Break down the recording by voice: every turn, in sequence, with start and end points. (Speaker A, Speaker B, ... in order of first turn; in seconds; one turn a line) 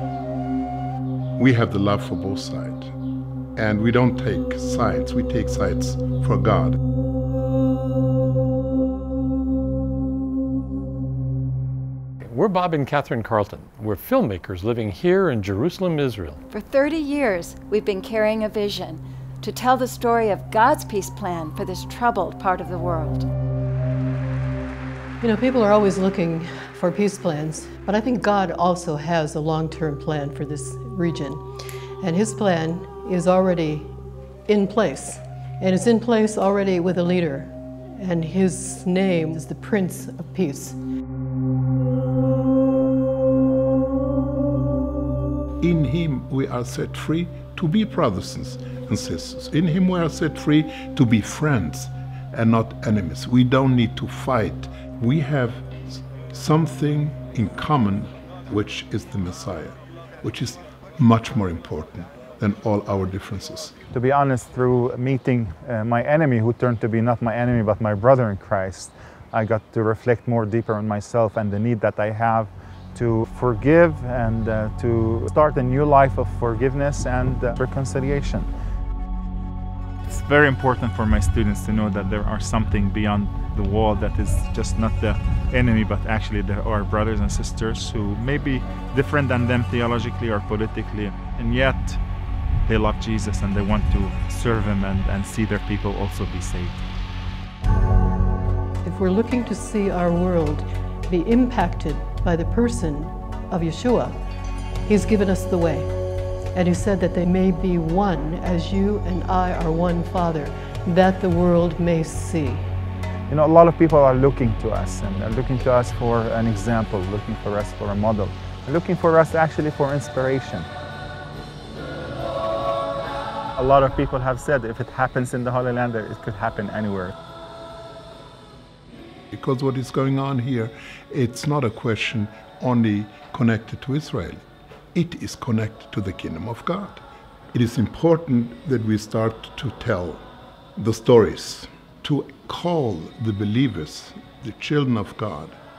Speaker A: 1.4-2.9
Speaker A: 3.6-6.8
Speaker B: 12.2-16.4
Speaker C: 16.5-23.3
Speaker D: 25.2-31.4
Speaker D: 32.0-34.0
Speaker D: 34.5-40.8
Speaker A: 45.6-63.7
Speaker E: 63.9-78.5
Speaker E: 80.1-92.0
Speaker E: 92.7-96.8
Speaker D: 98.8-104.2
Speaker D: 104.9-105.9
Speaker D: 106.5-112.7
Speaker E: 113.3-120.7
Speaker E: 123.6-127.1
Speaker A: 129.3-134.4
Speaker A: 134.9-137.0
Speaker A: 137.5-140.2
Speaker A: 140.8-145.6